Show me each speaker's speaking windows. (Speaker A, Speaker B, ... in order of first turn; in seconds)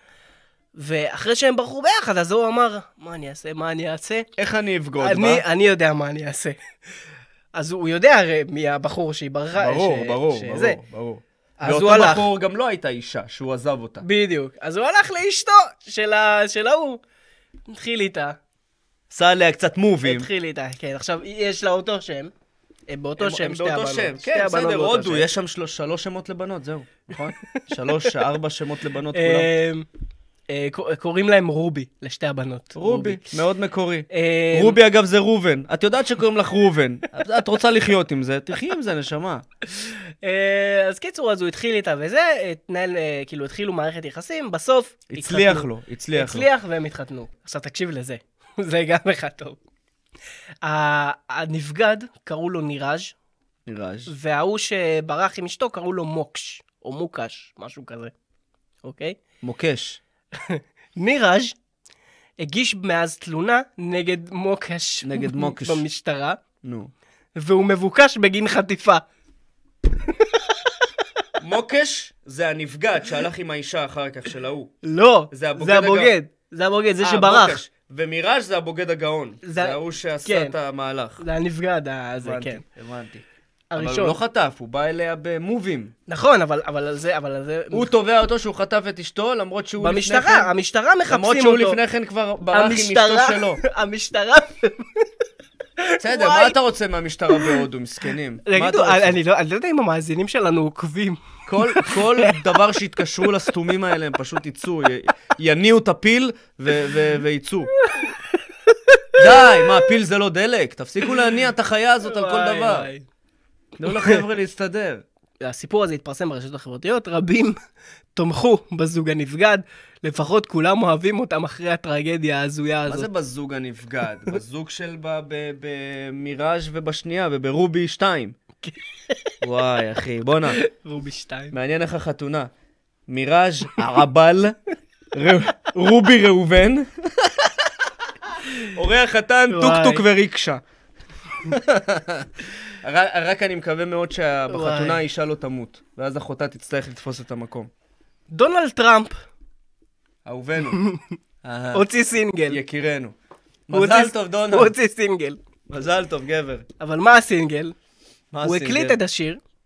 Speaker A: 0.7-4.3, 5.0-6.6, 7.5-10.8, 11.6-12.3, 14.0-17.0, 17.7-18.4, 20.0-22.3, 22.9-25.3, 29.1-29.9, 30.5-33.3, 34.1-34.8, 39.7-49.6, 50.6-53.1, 54.1-58.1, 58.8-59.2, 60.3-61.5, 62.4-66.4, 67.3-69.0, 70.0-71.0, 74.8-77.6, 79.4-80.5, 81.2-82.6, 83.7-84.2, 86.1-87.9, 89.8-91.8, 92.5-95.1, 95.8-96.6, 97.3-97.7, 98.4-102.4, 107.8-108.2, 108.7-109.7, 112.0-113.0, 113.9-114.2, 115.4-117.5, 118.1-123.1, 128.6-129.2, 130.5-131.5, 139.5-140.0, 144.5-145.0, 148.3-149.1, 150.7-151.0, 151.7-152.6, 153.7-155.4, 156.8-157.8, 158.4-159.4
Speaker B: 4.4-5.4, 9.5-14.1, 19.1-20.3, 23.2-29.5, 32.7-39.4, 45.1-46.5, 53.7-54.1, 59.4-60.0, 65.0-65.8, 66.6-66.9, 71.4-74.7, 75.3-76.1, 77.0-81.2, 82.2-83.2, 83.8-85.9, 87.7-90.5, 91.1-93.6, 96.0-99.2, 101.5-107.7, 109.1-112.9, 113.8-115.0, 122.9-128.4, 129.4-130.6, 131.5-132.5, 133.1-134.6, 135.1-137.7, 138.4-140.6, 141.4-142.3, 142.8-147.7, 150.2-150.8, 151.4-151.9, 152.5-153.1, 153.7-154.7, 155.7-156.7, 158.3-159.0